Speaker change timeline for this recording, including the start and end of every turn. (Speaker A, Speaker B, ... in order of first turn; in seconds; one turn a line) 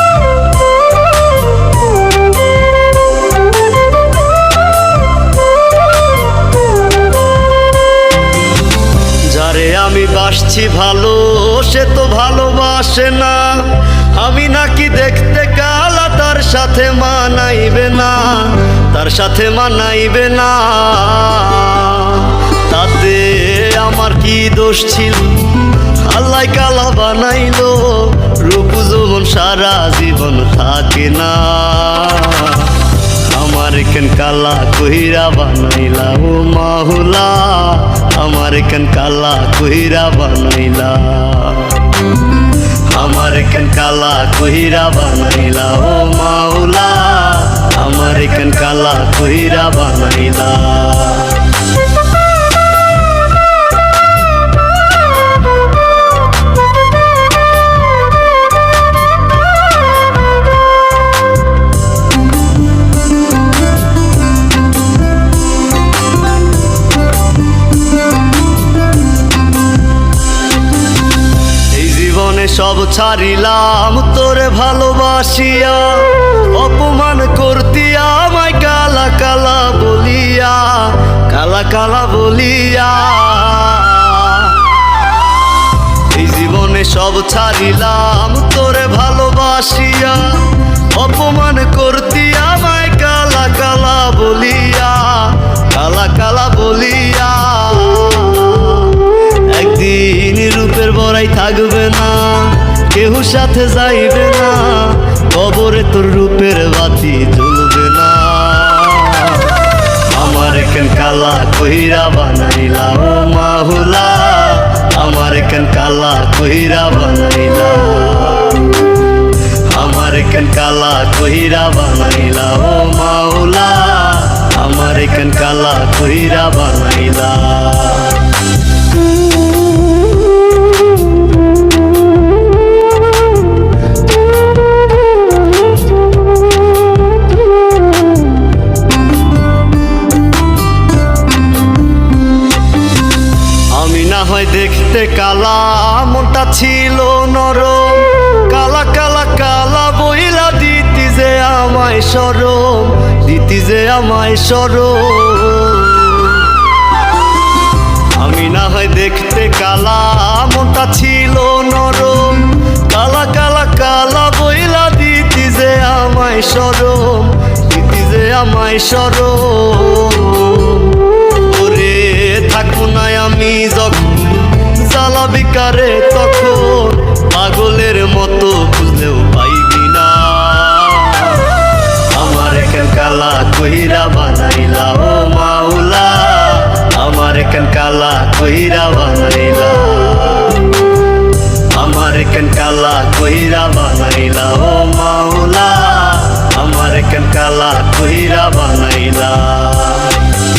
Speaker A: 9.3-41.9
Speaker A: 42.8-51.5
Speaker A: 71.7-84.7
Speaker A: 86.0-118.8
Speaker A: 119.6-128.3
Speaker A: 143.7-156.6
Speaker A: 158.1-190.7
Speaker A: 191.7-200.3